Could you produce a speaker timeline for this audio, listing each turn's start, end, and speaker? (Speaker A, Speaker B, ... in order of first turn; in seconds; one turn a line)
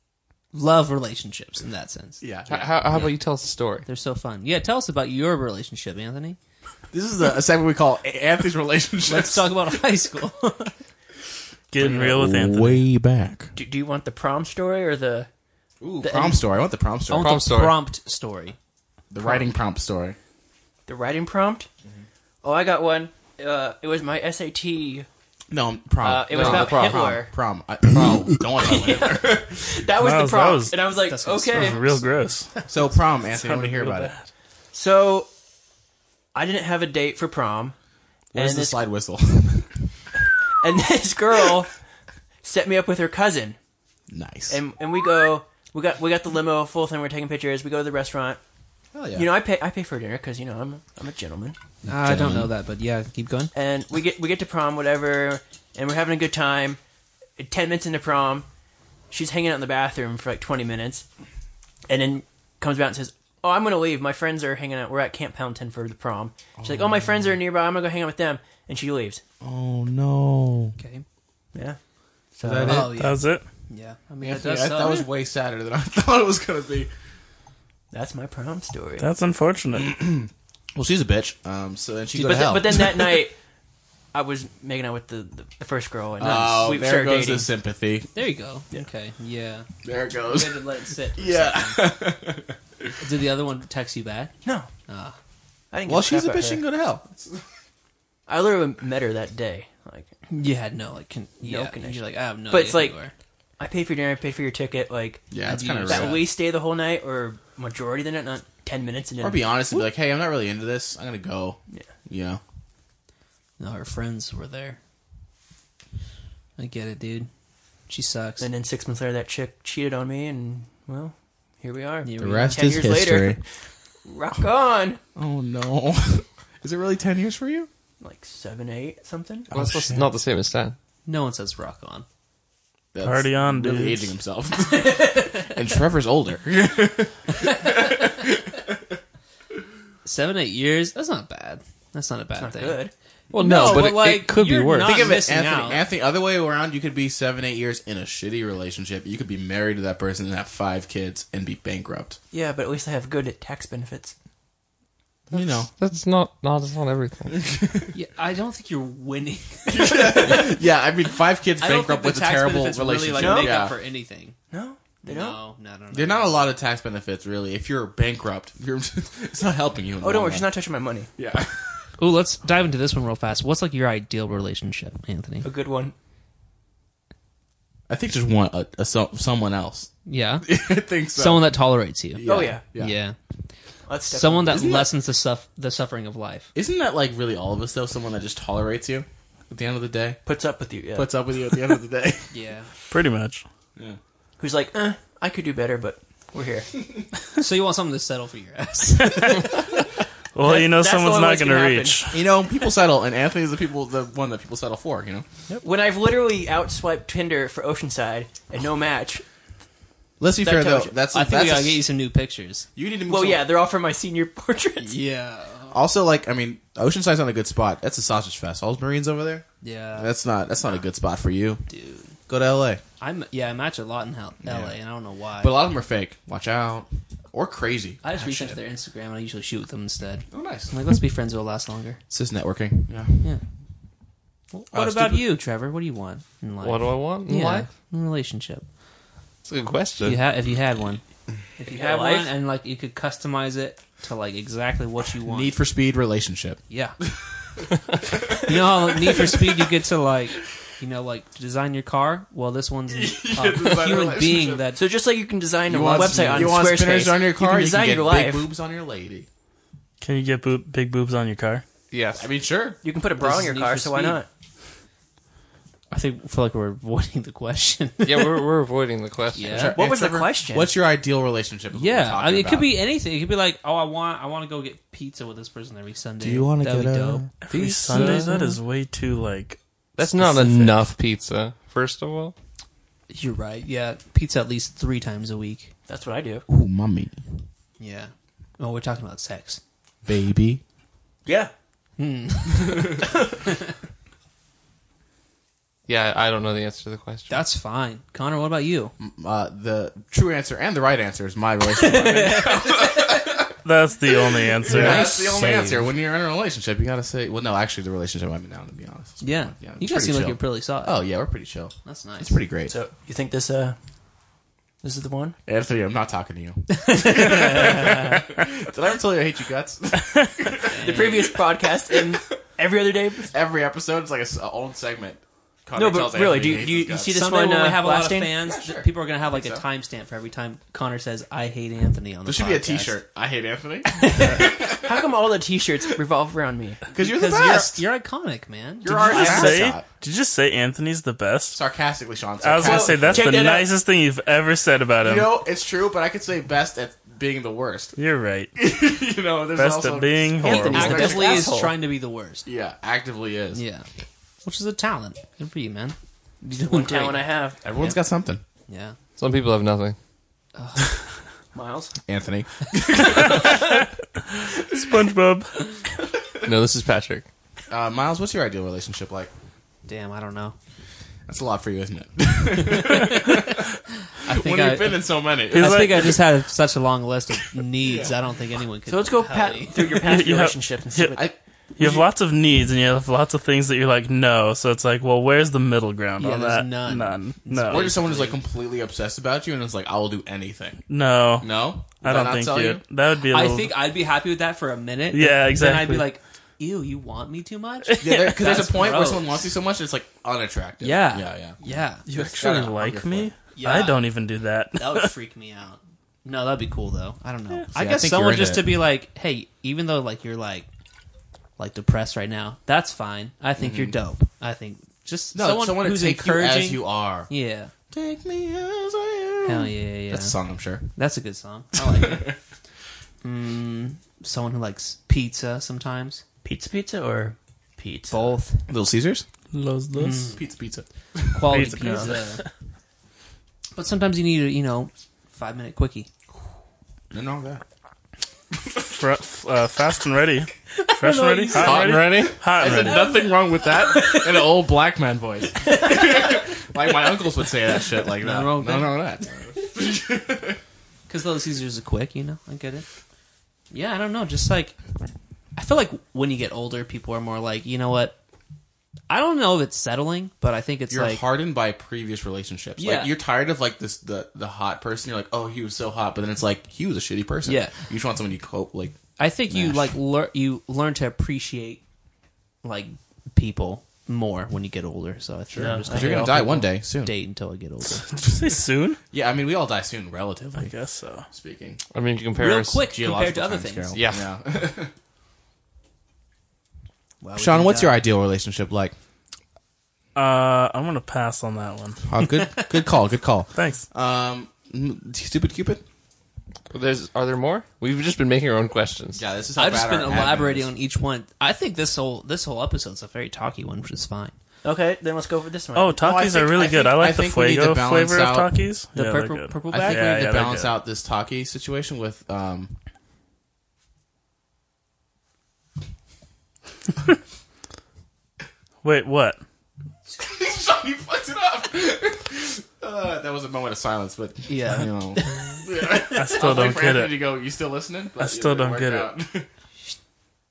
Speaker A: 0.5-2.2
Speaker B: 2.2-3.1
Speaker C: 2.5-3.9
Speaker A: 3.9-6.4
Speaker B: 6.9-9.8
Speaker A: 9.1-10.7
Speaker D: 11.7-12.8
Speaker B: 11.8-13.5
Speaker E: 13.5-15.3
Speaker B: 15.8-17.4
Speaker E: 16.0-16.4
Speaker A: 17.1-18.6
Speaker C: 17.1-17.8
Speaker B: 19.1-20.2
Speaker E: 20.9-21.7
Speaker E: 22.4-25.1
Speaker B: 25.5-29.6
Speaker E: 26.0-27.3
Speaker C: 26.3-27.2
Speaker E: 28.6-31.8
Speaker D: 29.9-30.8
Speaker A: 31.0-32.9
Speaker D: 31.5-32.5
Speaker B: 32.7-34.1
Speaker D: 33.3-34.2
Speaker E: 34.7-35.3
Speaker E: 36.3-37.8
Speaker B: 38.3-39.9
Speaker E: 38.3-38.8
Speaker E: 40.6-41.7
Speaker E: 42.4-43.6
Speaker B: 44.1-44.6
Speaker E: 44.5-48.4
Speaker B: 48.9-49.3
Speaker E: 49.1-51.6
Speaker A: 51.8-53.5
Speaker B: 51.9-52.5
Speaker E: 53.5-56.8
Speaker E: 57.4-58.5
Speaker E: 59.1-61.0
Speaker E: 61.9-69.2
Speaker B: 66.6-67.4
Speaker B: 69.4-70.8
Speaker A: 70.8-71.0
Speaker E: 71.5-71.8
Speaker E: 72.3-72.9
Speaker B: 72.4-73.0
Speaker A: 72.6-75.1
Speaker D: 72.9-73.4
Speaker B: 74.2-76.9
Speaker E: 77.9-79.0
Speaker D: 79.0-80.0
Speaker B: 79.7-83.2
Speaker E: 82.1-83.3
Speaker E: 84.1-87.5
Speaker B: 86.2-88.1
Speaker A: 88.1-89.7
Speaker B: 89.8-92.9
Speaker A: 90.3-91.9
Speaker A: 93.0-94.3
Speaker E: 94.4-94.7
Speaker A: 94.9-95.1
Speaker E: 95.7-96.6
Speaker B: 95.8-97.4
Speaker E: 98.3-100.1
Speaker A: 100.3-103.1
Speaker E: 101.4-103.0
Speaker E: 103.6-105.3
Speaker B: 105.3-106.3
Speaker A: 105.4-106.3
Speaker E: 105.8-109.8
Speaker B: 109.2-112.4
Speaker A: 113.6-114.8
Speaker A: 116.6-117.3
Speaker A: 117.9-118.5
Speaker E: 118.4-123.4
Speaker A: 122.0-122.8
Speaker B: 122.2-123.4
Speaker E: 124.0-125.0
Speaker B: 125.2-127.7
Speaker E: 128.0-129.5
Speaker B: 129.5-130.1
Speaker C: 129.5-130.8
Speaker A: 131.1-132.1
Speaker B: 132.9-138.8
Speaker D: 133.0-134.1
Speaker A: 140.0-142.8
Speaker E: 142.4-142.9
Speaker C: 143.3-145.1
Speaker B: 143.4-143.9
Speaker A: 143.4-145.8
Speaker B: 144.8-152.2
Speaker E: 152.3-154.1
Speaker B: 155.3-155.7
Speaker C: 155.7-157.5
Speaker B: 157.4-157.8
Speaker A: 157.9-160.6
Speaker B: 159.7-163.7
Speaker A: 161.6-164.3
Speaker E: 163.2-163.7
Speaker E: 164.5-165.4
Speaker A: 165.0-166.4
Speaker B: 165.9-170.5
Speaker E: 170.0-171.1
Speaker B: 171.2-171.7
Speaker A: 172.0-175.5
Speaker E: 175.4-175.9
Speaker B: 177.9-179.9
Speaker A: 180.1-180.5
Speaker B: 180.4-181.6
Speaker A: 181.1-183.2
Speaker B: 182.1-182.9
Speaker E: 182.2-182.6
Speaker E: 183.8-184.7
Speaker A: 184.1-186.5
Speaker B: 184.4-184.9
Speaker B: 186.5-190.2
Speaker E: 190.2-191.1
Speaker B: 190.9-192.3
Speaker A: 192.3-192.7
Speaker D: 192.9-193.4
Speaker E: 194.4-196.7
Speaker A: 197.4-199.7
Speaker D: 199.0-199.7
Speaker D: 200.3-202.2
Speaker E: 200.4-202.1
Speaker B: 202.1-205.2
Speaker E: 205.5-209.2
Speaker B: 210.2-211.8
Speaker E: 210.4-210.9
Speaker A: 211.1-212.7
Speaker B: 212.8-213.5
Speaker E: 213.1-215.0
Speaker A: 214.8-215.8
Speaker B: 215.7-219.4
Speaker A: 219.6-220.1
Speaker B: 219.9-221.6
Speaker A: 221.7-222.2
Speaker B: 222.3-222.8
Speaker A: 223.0-225.5
Speaker B: 224.4-224.8
Speaker B: 225.4-228.5
Speaker A: 228.0-232.0
Speaker B: 230.3-230.8
Speaker B: 232.1-233.3
Speaker A: 234.5-238.6
Speaker B: 234.7-235.3
Speaker C: 236.6-237.7
Speaker C: 239.4-240.2
Speaker A: 240.0-241.0
Speaker A: 241.6-245.5
Speaker E: 241.7-242.3
Speaker B: 245.2-249.7
Speaker A: 246.7-246.9
Speaker A: 248.4-254.8
Speaker B: 252.9-254.7
Speaker E: 254.7-258.4
Speaker B: 255.7-259.3
Speaker A: 255.9-256.6
Speaker D: 260.0-261.6
Speaker C: 261.9-262.3
Speaker B: 262.1-262.8
Speaker E: 262.8-264.3
Speaker A: 263.2-264.2
Speaker A: 265.9-268.5
Speaker C: 268.0-269.7
Speaker A: 269.3-269.8
Speaker B: 269.5-272.8
Speaker E: 269.7-270.7
Speaker A: 271.7-278.5
Speaker B: 276.2-277.3
Speaker D: 277.4-279.6
Speaker C: 277.9-278.3
Speaker C: 280.0-282.3
Speaker A: 280.3-280.7
Speaker A: 283.1-285.7
Speaker E: 285.9-286.4
Speaker B: 286.5-287.2
Speaker A: 287.8-289.6
Speaker B: 290.1-290.6
Speaker E: 291.2-291.5
Speaker A: 292.0-293.1
Speaker C: 295.9-297.4
Speaker A: 297.3-298.9
Speaker B: 299.0-303.5
Speaker A: 301.8-303.0
Speaker D: 303.6-305.1
Speaker B: 304.6-312.7
Speaker E: 304.6-305.8
Speaker A: 304.8-305.6
Speaker A: 309.2-311.0
Speaker A: 311.8-312.4
Speaker E: 312.7-313.8
Speaker E: 314.8-315.4
Speaker B: 315.4-322.1
Speaker A: 316.7-318.2
Speaker A: 320.6-321.3
Speaker E: 320.7-323.3
Speaker B: 323.3-327.1
Speaker E: 325.7-328.6
Speaker A: 327.1-333.0
Speaker B: 328.4-329.6
Speaker B: 332.2-335.0
Speaker E: 334.2-336.8
Speaker B: 336.9-337.8
Speaker A: 336.9-339.6
Speaker B: 338.8-339.8
Speaker D: 339.1-341.6
Speaker B: 341.5-343.3
Speaker D: 342.4-345.3
Speaker E: 342.6-343.7
Speaker B: 345.0-347.9
Speaker D: 348.0-348.5
Speaker B: 348.6-351.5
Speaker D: 349.6-351.2
Speaker E: 350.4-351.8
Speaker A: 350.7-352.5
Speaker B: 352.4-353.6
Speaker A: 353.5-353.9
Speaker A: 354.4-357.2
Speaker E: 356.6-357.6
Speaker B: 357.6-358.4
Speaker A: 358.7-358.9
Speaker C: 359.2-359.9
Speaker A: 360.6-360.9
Speaker E: 361.5-361.9
Speaker B: 362.1-363.8
Speaker D: 363.0-365.7
Speaker C: 366.4-367.2
Speaker B: 367.7-369.3
Speaker A: 369.9-370.5
Speaker B: 371.3-376.1
Speaker A: 372.6-373.6
Speaker A: 374.2-380.1
Speaker D: 375.5-376.2
Speaker B: 377.7-378.1
Speaker E: 378.9-381.3
Speaker D: 379.9-381.2
Speaker B: 381.1-382.1
Speaker D: 381.8-387.9
Speaker A: 386.2-388.4
Speaker B: 387.7-390.8
Speaker D: 390.9-393.8
Speaker B: 391.4-392.8
Speaker A: 393.3-399.2
Speaker D: 395.1-396.1
Speaker D: 397.9-398.5
Speaker B: 398.0-403.3
Speaker A: 400.8-402.0
Speaker D: 402.1-405.1
Speaker A: 403.5-404.0
Speaker A: 404.8-410.7
Speaker B: 407.7-408.8
Speaker A: 411.6-417.7
Speaker B: 413.6-413.9
Speaker B: 415.3-417.3
Speaker B: 417.9-420.9
Speaker A: 419.4-420.4
Speaker A: 420.9-422.3
Speaker B: 421.7-422.4
Speaker A: 423.2-426.2
Speaker E: 426.4-428.4
Speaker A: 428.1-428.7
Speaker B: 428.7-429.2
Speaker D: 429.5-430.3
Speaker A: 429.9-430.4
Speaker B: 430.4-431.5
Speaker A: 431.3-432.4
Speaker D: 431.5-432.4
Speaker E: 431.8-432.2
Speaker A: 433.8-436.1
Speaker B: 437.1-437.6
Speaker D: 438.9-443.1
Speaker A: 441.0-441.7
Speaker E: 441.4-441.7
Speaker B: 441.5-450.6
Speaker C: 441.6-442.4
Speaker E: 446.0-446.3
Speaker A: 448.1-449.0
Speaker A: 451.1-452.9
Speaker A: 453.7-454.8
Speaker A: 455.6-458.1
Speaker A: 459.1-461.2
Speaker B: 460.9-469.0
Speaker A: 462.8-463.1
Speaker A: 467.4-467.7
Speaker A: 469.2-471.8
Speaker B: 469.5-469.9
Speaker A: 472.6-478.1
Speaker B: 475.5-477.1
Speaker E: 475.6-476.6
Speaker D: 478.2-479.0
Speaker B: 479.1-480.7
Speaker D: 480.6-481.3
Speaker B: 481.3-481.8
Speaker C: 481.9-482.9
Speaker A: 482.4-484.0
Speaker B: 482.9-484.9
Speaker C: 483.9-484.3
Speaker A: 487.2-488.0
Speaker B: 487.4-488.9
Speaker D: 490.1-492.0
Speaker B: 492.1-495.8
Speaker A: 492.2-492.7
Speaker D: 493.6-493.9
Speaker C: 496.7-499.2
Speaker B: 499.1-500.7
Speaker A: 499.6-504.3
Speaker E: 504.6-506.0
Speaker D: 505.7-510.7
Speaker B: 506.0-508.6
Speaker A: 508.9-510.2
Speaker B: 509.7-512.7
Speaker D: 518.8-519.4
Speaker B: 520.1-529.5
Speaker A: 524.5-525.6
Speaker D: 526.1-527.2
Speaker D: 528.2-529.1